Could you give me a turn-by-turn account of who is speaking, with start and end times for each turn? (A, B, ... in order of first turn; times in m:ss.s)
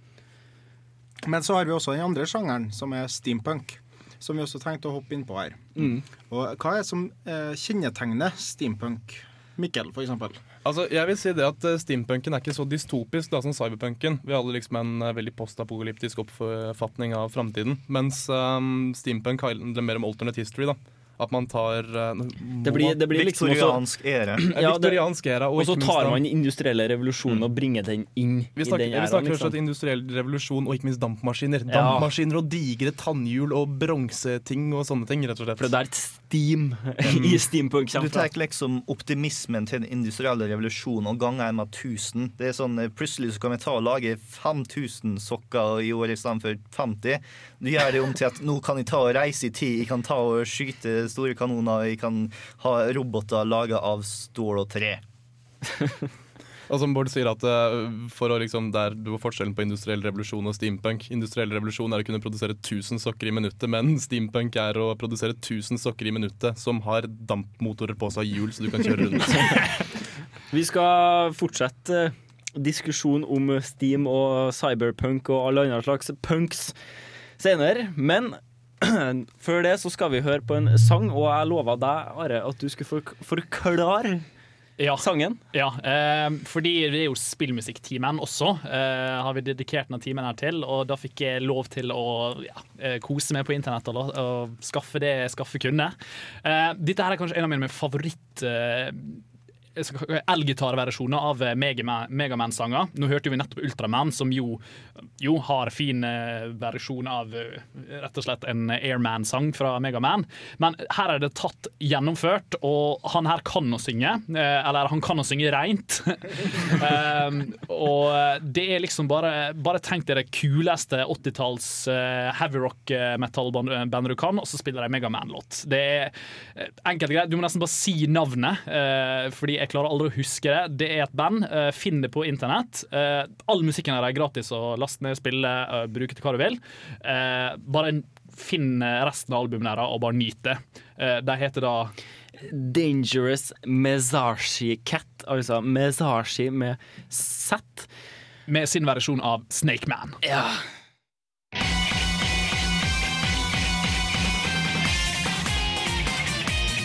0:01.2-0:10.4 A
0:05.8-0:06.0 B
0:10.6-0:22.9 C
0:22.6-0:23.8 B
0:23.0-0:24.4 D
0:24.4-0:25.0 B
0:24.5-0:26.2 C
0:25.5-0:29.5 B
0:28.6-0:35.7 C
0:31.7-0:32.1 B
0:35.6-0:38.3 B
0:37.0-0:37.3 D
0:37.9-0:55.0 D
0:56.7-1:09.7 C
1:10.5-1:16.7 B
1:17.4-1:24.2 B
1:24.8-1:39.2 E
1:25.0-1:25.4 B
1:39.8-1:44.6 E
1:45.2-2:21.9 E
2:22.4-2:27.9 B
2:28.5-2:30.2 E
2:30.2-2:30.6 B